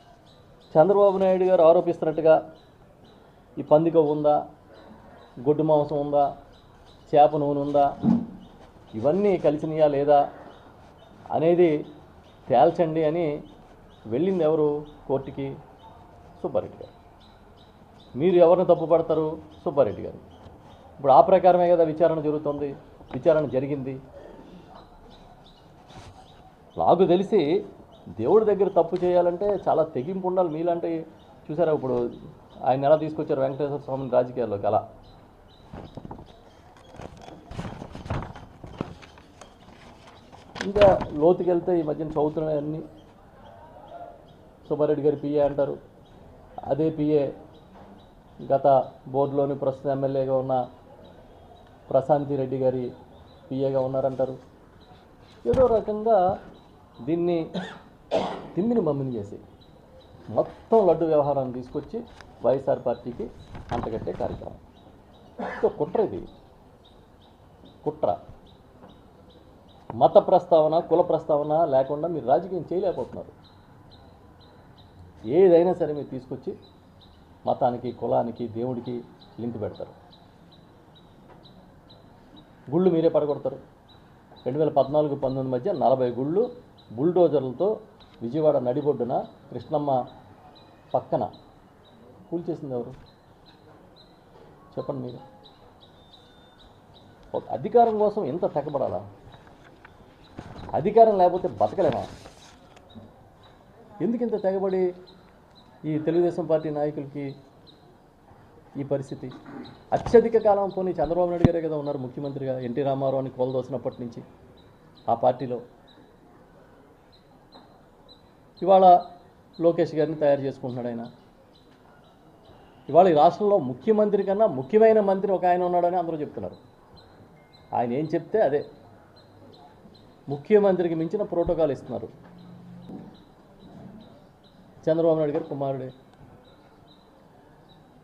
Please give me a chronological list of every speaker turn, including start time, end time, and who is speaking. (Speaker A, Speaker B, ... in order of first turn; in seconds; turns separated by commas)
Speaker A: 0.7-2.4, Speaker A: 3.6-4.4, Speaker A: 5.4-6.3, Speaker A: 7.1-7.9, Speaker A: 8.9-10.2, Speaker A: 11.3-11.7, Speaker A: 12.5-13.3, Speaker A: 14.1-15.6, Speaker A: 16.4-16.9, Speaker A: 18.2-20.2, Speaker A: 21.0-24.0, Speaker A: 26.8-27.4, Speaker A: 28.2-32.0, Speaker A: 32.7-34.8, Speaker A: 40.6-42.8, Speaker A: 44.6-45.8, Speaker A: 46.7-47.3, Speaker A: 48.4-50.6, Speaker A: 51.9-52.9, Speaker A: 53.5-54.4, Speaker A: 55.4-56.2, Speaker A: 57.0-57.5, Speaker A: 58.5-59.4, Speaker A: 60.3-64.6, Speaker A: 65.4-66.2, Speaker A: 67.8-68.2, Speaker A: 70.0-73.3, Speaker A: 75.3-76.5, Speaker A: 77.5-79.9, Speaker A: 82.7-83.6, Speaker A: 84.5-90.0, Speaker A: 90.9-91.3, Speaker A: 92.3-93.0, Speaker A: 94.7-95.2, Speaker A: 97.3-99.0, Speaker A: 100.7-102.1, Speaker A: 104.0-104.9, Speaker A: 105.8-107.3, Speaker A: 108.8-109.3, Speaker A: 109.9-114.2, Speaker A: 115.1-115.6, Speaker A: 118.6-119.0, Speaker A: 119.6-121.1, Speaker A: 122.9-126.6, Speaker A: 127.8-128.6, Speaker A: 130.3-132.1, Speaker A: 134.8-135.9